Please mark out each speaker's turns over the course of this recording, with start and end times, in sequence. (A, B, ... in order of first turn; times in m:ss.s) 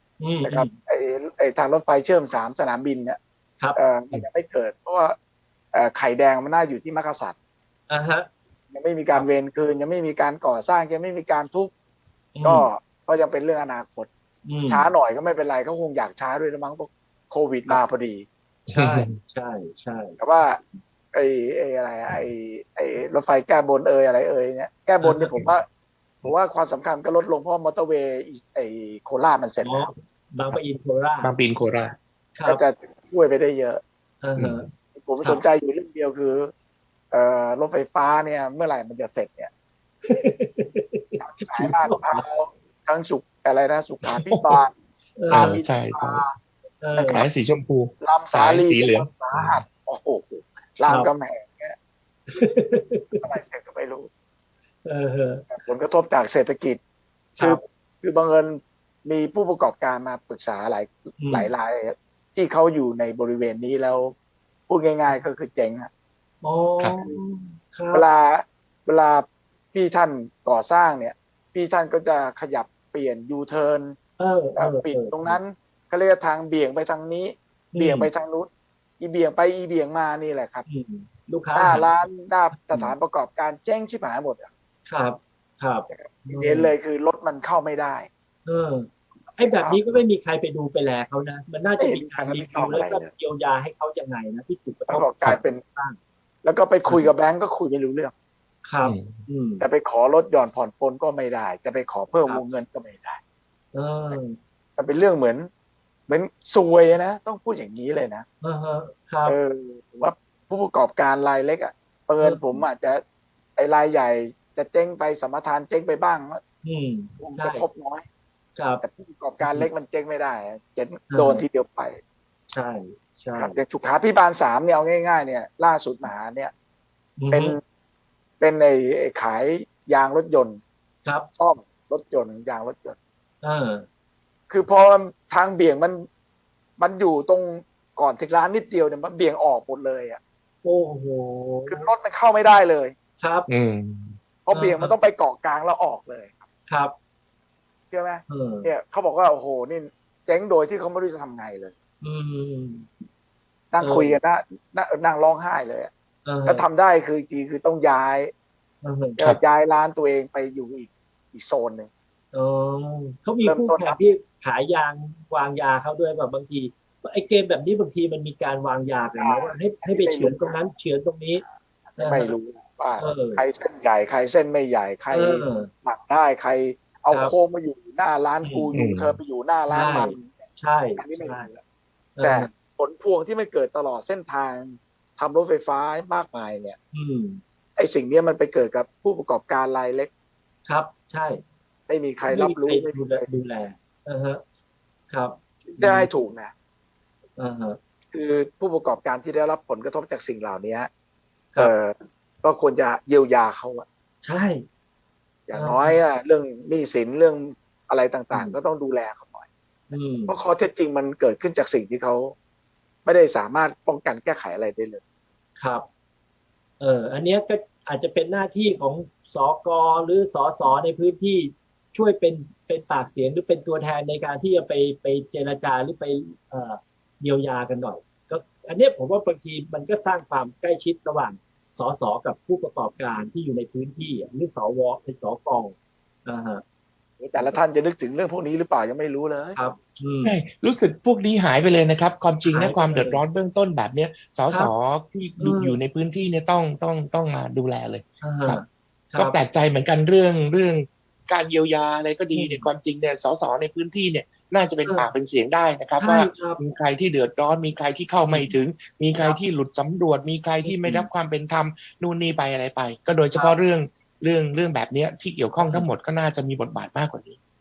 0:00.2-0:00.7 A
0:00.4-0:03.2 B
0:03.8-0:05.2 B
0:05.7-0:07.4 B
0:07.9-0:08.3 A
0:08.7-0:11.7 B
0:12.4-0:12.7 A
0:12.4-0:14.1 B
0:14.4-0:14.9 A
0:14.7-0:18.3 B
0:18.7-0:19.2 C
0:18.7-0:20.2 A
0:20.2-0:20.6 B
0:21.1-0:25.7 B
0:25.0-0:25.4 A
0:26.2-0:29.9 B
0:29.6-0:31.3 A
0:31.2-0:32.0 C
0:32.4-0:32.6 A
0:32.4-0:33.8 B
0:34.2-0:34.7 A
0:34.4-0:34.7 C
0:34.9-0:36.5 B
0:37.1-0:39.5 B
0:40.0-0:42.2 A
0:41.2-0:44.7 B
0:44.0-0:44.5 C
0:45.2-0:45.6 A
0:45.3-0:46.4 B
0:45.3-0:46.2 C
0:46.8-0:47.3 A
0:47.0-0:47.3 B
0:47.1-0:49.6 C
0:48.0-0:51.8 B
0:52.3-0:53.3 A
0:53.2-0:54.1 B
0:54.8-0:55.4 A
0:55.5-0:56.8 B
0:57.4-1:04.1 B
1:01.2-1:01.5 A
1:04.7-1:05.9 B
1:06.4-1:08.0 A
1:07.9-1:14.0 B
1:14.2-1:15.4 A
1:14.6-1:20.7 B
1:17.7-1:18.1 A
1:20.7-1:21.9 A
1:21.6-1:24.5 B
1:22.6-1:23.0 A
1:24.9-1:26.7 A
1:25.9-1:28.1 B
1:28.5-1:36.0 A
1:29.3-1:29.9 B
1:31.8-1:33.1 B
1:34.9-1:35.6 B
1:36.4-1:38.1 B
1:38.6-1:39.6 A
1:38.8-1:39.2 C
1:39.6-1:43.2 B
1:43.7-1:44.4 A
1:44.8-1:45.5 B
1:46.1-1:48.2 B
1:48.4-1:49.4 A
1:49.3-1:53.0 B
1:52.2-1:52.6 A
1:53.6-1:56.4 B
1:56.6-1:57.6 A
1:57.2-1:58.1 B
1:58.6-1:58.8 A
1:58.8-2:02.0 B
1:59.4-1:59.7 A
2:01.1-2:01.4 A
2:02.5-2:03.6 A
2:03.4-2:06.5 B
2:07.2-2:07.6 A
2:07.3-2:07.6 B
2:08.4-2:10.6 B
2:11.4-2:13.0 B
2:13.4-2:13.9 A
2:14.5-2:16.1 B
2:16.8-2:20.2 B
2:20.6-2:21.9 A
2:21.7-2:23.0 B
2:23.2-2:23.5 A
2:23.5-2:24.2 C
2:24.5-2:26.4 B
2:24.5-2:25.0 A
2:26.7-2:26.9 A
2:27.9-2:31.7 B
2:28.3-2:28.7 A
2:32.0-2:32.9 A
2:33.7-2:35.9 B
2:33.8-2:34.2 A
2:36.2-2:36.7 A
2:36.5-2:38.3 B
2:38.8-2:39.2 A
2:39.2-2:41.9 B
2:42.3-2:51.4 A
2:43.4-2:44.0 B
2:49.2-2:50.6 B
2:51.4-3:00.5 B
2:52.0-2:52.3 A
2:53.0-2:53.4 A
2:55.1-2:55.7 A
2:58.4-2:58.7 A
2:58.7-2:59.2 C
2:59.7-3:01.5 A
3:01.0-3:01.6 B
3:02.2-3:02.5 A
3:02.2-3:06.8 B
3:06.9-3:07.4 A
3:07.8-3:10.1 B
3:10.7-3:11.4 A
3:11.9-3:13.3 B
3:12.3-3:14.4 A
3:15.1-3:16.1 A
3:15.7-3:16.5 B
3:17.4-3:17.8 A
3:18.1-3:20.9 B
3:21.6-3:23.8 B
3:24.2-3:24.6 A
3:25.5-3:29.5 B
3:25.5-3:26.0 A
3:28.3-3:28.6 A
3:29.9-3:30.4 A
3:30.3-3:32.4 B
3:33.0-3:35.0 B
3:35.6-3:35.9 A
3:36.8-3:56.6 A
3:57.2-3:59.6 B
3:59.6-4:00.4 A
4:00.2-4:08.6 C
4:02.5-4:03.2 A
4:05.4-4:05.8 A
4:08.2-4:09.4 A
4:09.2-4:27.4 C
4:12.3-4:12.7 A
4:16.0-4:16.6 A
4:18.2-4:18.6 A
4:19.1-4:19.4 A
4:20.6-4:21.1 A
4:25.6-4:25.9 A